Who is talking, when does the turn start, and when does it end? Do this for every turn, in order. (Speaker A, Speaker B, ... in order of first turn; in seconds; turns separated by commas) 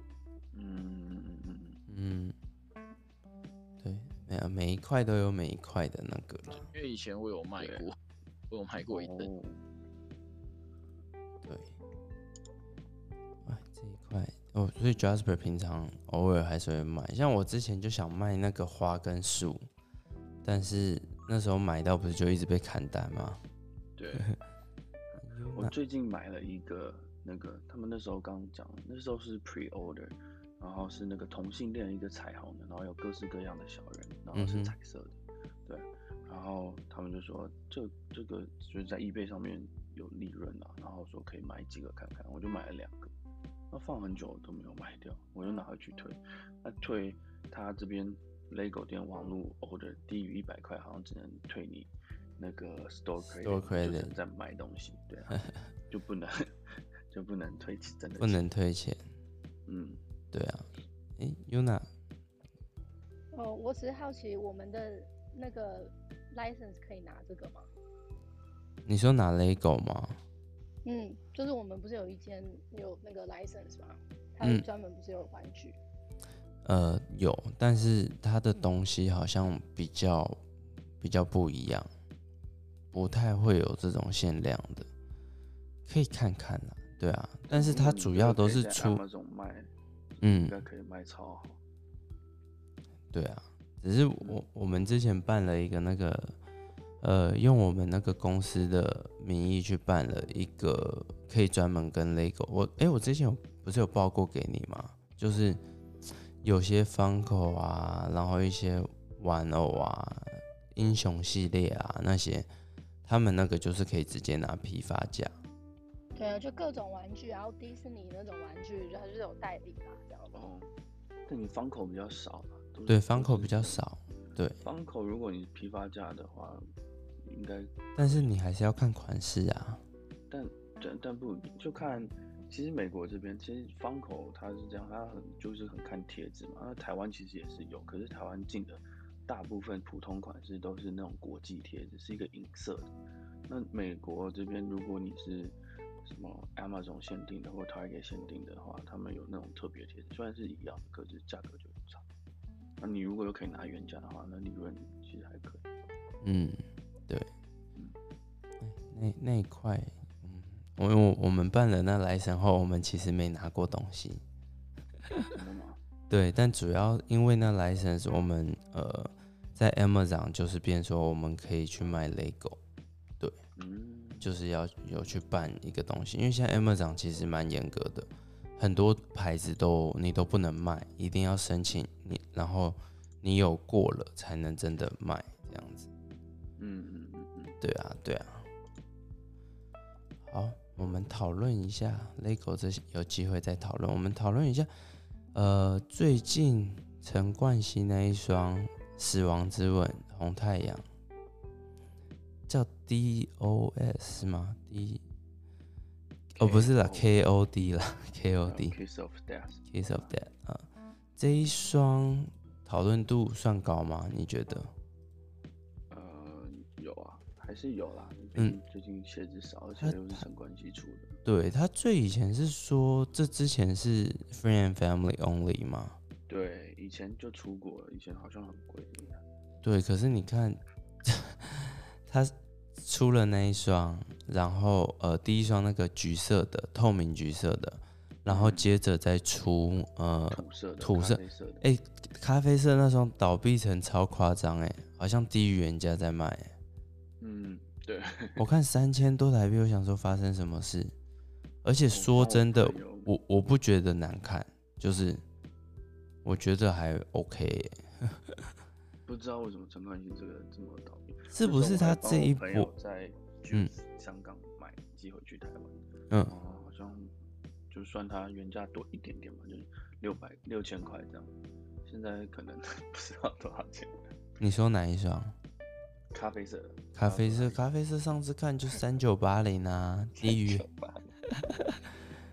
Speaker A: 0.5-1.8, Speaker B: 1.9-2.4, Speaker B: 3.8-6.7, Speaker C: 6.5-8.0, Speaker A: 7.6-7.9, Speaker C: 8.5-9.3, Speaker A: 8.9-9.6, Speaker B: 11.4-11.7, Speaker B: 13.4-19.7, Speaker B: 20.4-23.4, Speaker A: 24.0-24.3, Speaker B: 25.2-25.7, Speaker A: 25.6-43.1, Speaker B: 34.3-34.8, Speaker A: 43.7-56.5, Speaker B: 53.2-54.1, Speaker A: 57.1-58.4, Speaker B: 58.2-59.0, Speaker A: 59.7-60.0, Speaker B: 60.3-61.9, Speaker D: 63.3-67.7, Speaker B: 68.9-70.2, Speaker D: 70.8-75.8, Speaker B: 74.4-74.7, Speaker B: 76.7-80.4, Speaker B: 81.0-81.9, Speaker B: 82.9-84.9, Speaker B: 85.9-89.0, Speaker A: 87.5-91.6, Speaker B: 90.2-90.6, Speaker B: 93.1-96.4, Speaker B: 97.0-105.6, Speaker B: 106.4-112.5, Speaker B: 113.0-115.3, Speaker D: 116.2-120.4, Speaker A: 120.3-120.7, Speaker A: 121.3-123.8, Speaker B: 122.9-124.6, Speaker A: 124.6-126.7, Speaker A: 127.2-128.2, Speaker B: 128.0-129.8, Speaker A: 130.3-142.9, Speaker A: 143.5-152.0, Speaker A: 152.8-155.7, Speaker B: 156.2-157.3, Speaker B: 158.6-164.2, Speaker A: 165.3-165.8, Speaker B: 166.1-172.6, Speaker A: 173.6-174.3, Speaker B: 174.2-185.9, Speaker A: 186.6-187.6, Speaker B: 187.6-188.5, Speaker B: 190.3-194.7, Speaker B: 195.3-200.8, Speaker B: 202.5-205.0, Speaker A: 206.4-207.2, Speaker B: 206.4-208.8, Speaker A: 208.5-210.1, Speaker B: 209.7-214.7, Speaker A: 215.9-221.2, Speaker B: 219.8-220.2, Speaker B: 221.2-226.0, Speaker A: 226.3-229.2, Speaker B: 229.6-246.5, Speaker A: 238.3-238.7, Speaker A: 240.3-241.7, Speaker A: 247.2-248.4, Speaker B: 248.4-250.9, Speaker B: 251.6-255.2, Speaker A: 251.9-253.1, Speaker B: 256.2-258.5, Speaker A: 259.1-267.1, Speaker B: 261.3-262.7, Speaker A: 267.7-271.3, Speaker A: 271.9-274.1, Speaker B: 274.4-275.4, Speaker A: 276.1-277.6, Speaker B: 276.9-280.7, Speaker A: 280.2-281.7